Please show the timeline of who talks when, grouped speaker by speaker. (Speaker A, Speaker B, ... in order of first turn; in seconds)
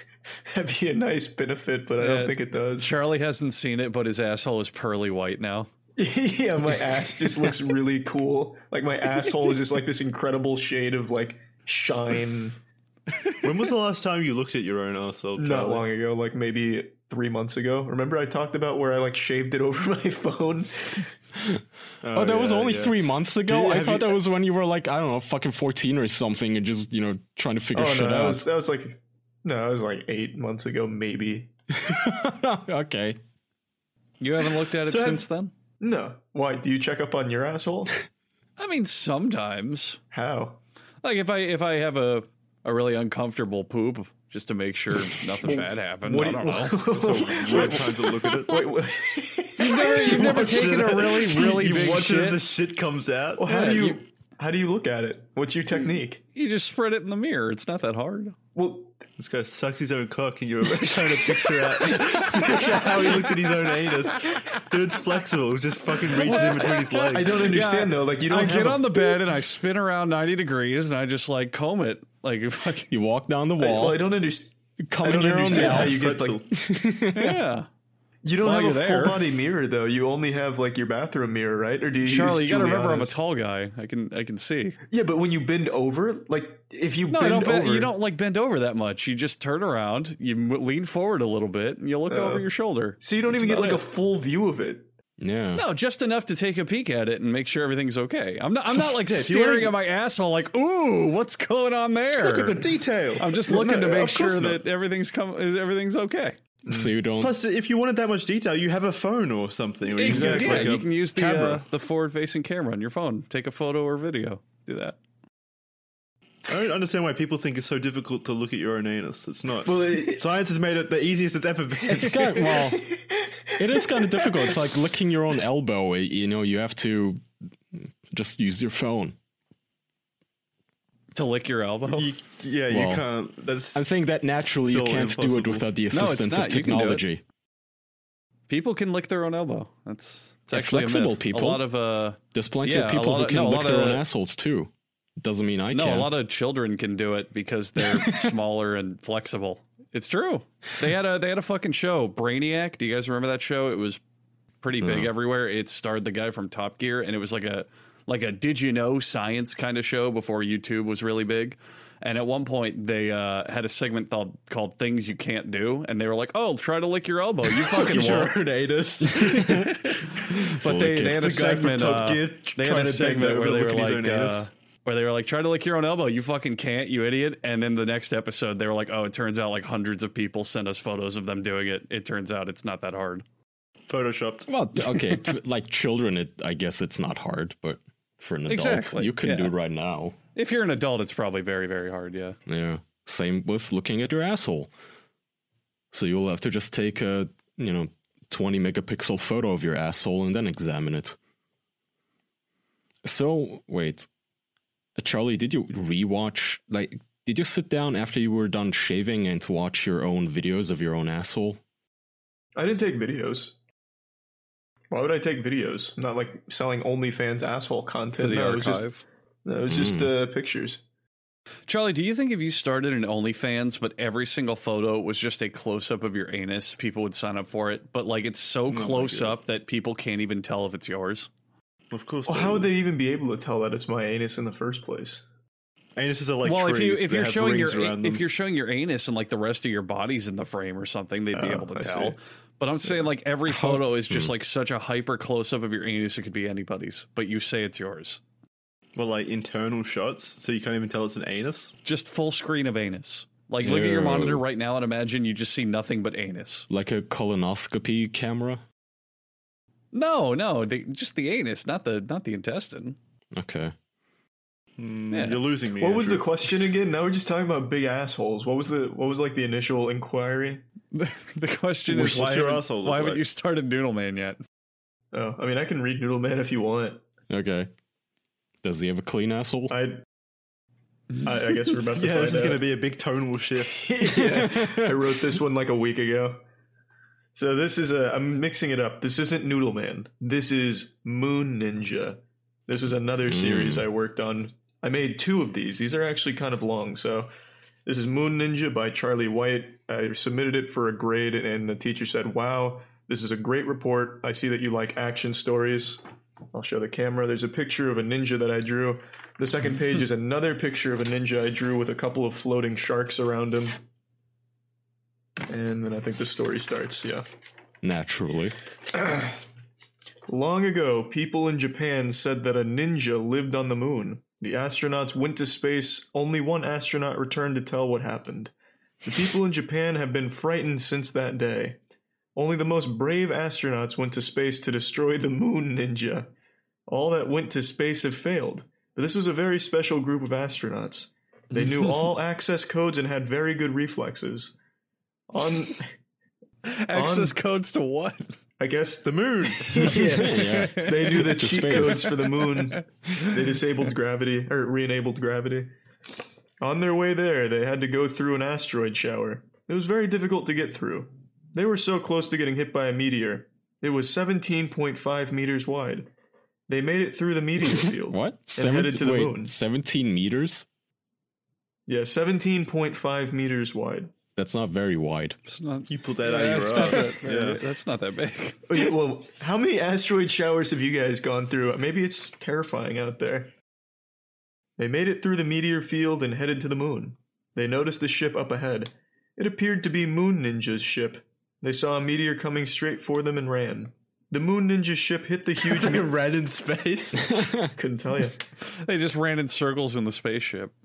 Speaker A: 0.5-2.9, 6.0-12.6, 15.4-21.1, 27.7-31.5, 34.9-35.2, 35.8-37.9, 40.1-40.6, 45.4-50.7, 53.4-56.2, 58.5-59.0, 60.8-63.3, 66.3-69.2, 73.6-76.4, 78.2-83.2, 84.9-87.9, 92.1-92.5, 93.0-94.9, 103.5-104.4, 110.0-110.8, 119.7-120.2, 122.5-123.0, 123.9-124.3, 212.6-213.5, 214.9-218.9, 219.4-220.8, 232.3-235.2, 241.3-242.2, 265.8-270.6, 275.1-277.0, 279.7-280.0, 281.2-282.6, 283.7-286.4, 287.3-297.3, 297.9-306.0, 306.5-313.8, 315.5-317.2, 318.9-319.4, 320.3-331.8, 332.3-336.3, 336.9-344.6, 345.3-345.9, 346.9-347.4, 348.6-355.7, 356.6-366.1, 366.7-369.5, 371.9-374.1, 378.7-383.5, 384.8-396.1, 397.6-398.4
Speaker B: 2.0-5.7, 34.2-35.5, 38.6-40.0, 41.0-46.8, 49.6-52.4, 53.5-54.0, 56.3-58.4, 66.2-72.9, 77.1-77.7, 78.4-79.2, 82.0-84.8, 87.1-93.0, 95.5-102.6, 103.2-106.4, 109.9-115.0, 131.1-132.1, 135.9-137.0, 138.5-144.0, 145.7-154.0, 154.6-168.3, 170.6-183.2, 188.5-189.5, 190.3-192.4, 218.1-219.0, 221.7-231.3, 236.4-248.2, 251.8-256.7, 259.9-263.0, 265.1-265.4, 270.9-274.4, 346.6-348.4, 349.8-351.9, 375.4-378.7, 398.6-400.7
Speaker C: 13.4-15.8, 22.0-24.2, 46.8-48.8, 49.8-53.8, 59.2-67.5, 75.5-76.5, 93.4-93.8, 99.0-99.7, 102.2-104.6, 107.2-111.6, 116.5-122.5, 131.9-133.8, 134.6-135.7, 167.5-170.0, 171.0-174.5, 183.9-184.5, 228.7-229.3, 231.9-232.7, 235.9-238.2, 248.9-251.7, 264.8-266.3, 271.9-273.2, 281.7-283.9, 349.0-350.1, 375.9-377.6, 395.6-397.2
Speaker D: 22.1-28.5, 31.7-33.2, 72.9-74.0, 74.8-76.0, 76.5-77.4, 95.2-95.6, 106.7-107.3, 121.9-122.9, 123.6-129.2, 132.7-133.0, 133.7-137.2, 140.5-141.7, 142.3-146.1, 147.8-148.3, 154.8-155.1, 169.0-171.2, 184.5-190.2, 192.5-194.7, 195.9-201.2, 203.0-204.1, 204.9-211.6, 219.7-220.1, 243.5-244.3, 253.6-254.4, 256.7-258.6, 263.3-263.7, 277.3-277.7, 278.6-279.7, 284.0-285.0, 293.3-293.9, 317.8-318.6, 349.9-352.2, 368.0-370.6, 374.4-375.4, 397.3-397.7